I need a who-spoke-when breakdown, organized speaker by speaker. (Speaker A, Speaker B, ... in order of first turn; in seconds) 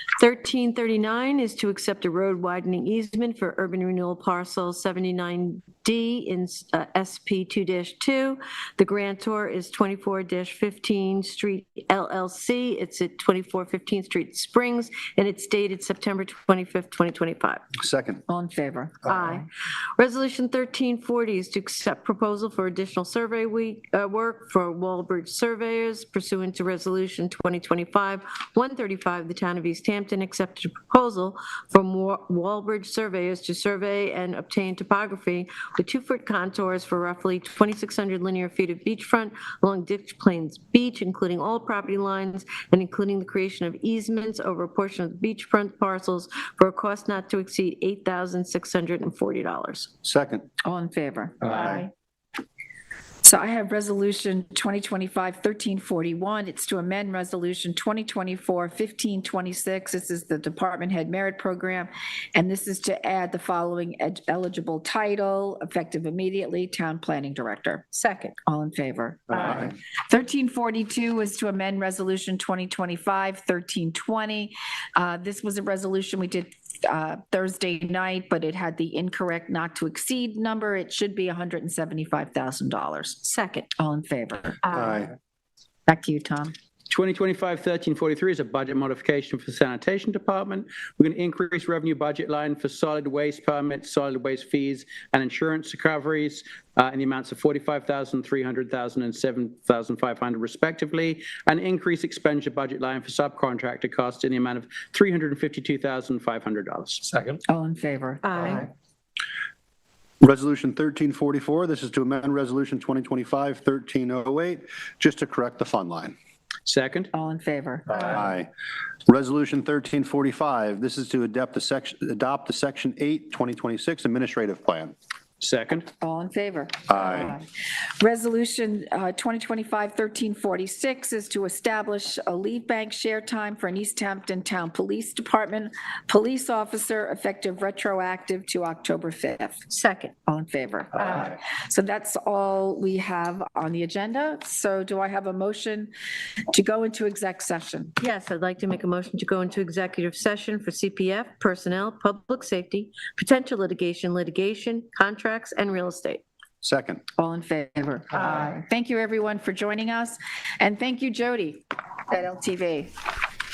Speaker A: 0.2-17.6, 19.0-49.9, 67.9-68.3, 83.2-83.7, 108.2-108.7, 139.7-140.1, 148.0-156.2
Speaker B: 17.8-18.2, 50.0-50.5, 84.7-85.1, 110.2-116.1, 118.0-118.5, 119.1-124.9, 126.9-127.4, 156.6-157.0
Speaker C: 18.3-19.2, 50.6-51.9, 53.2-67.9, 68.4-83.2, 83.8-84.7, 85.9-86.5, 107.5-108.7, 117.1-118.2, 126.0-127.5, 128.0-139.6, 140.2-145.9, 146.5-147.9, 157.2-162.9
Speaker D: 86.9-107.3, 116.7-117.1, 125.4-125.9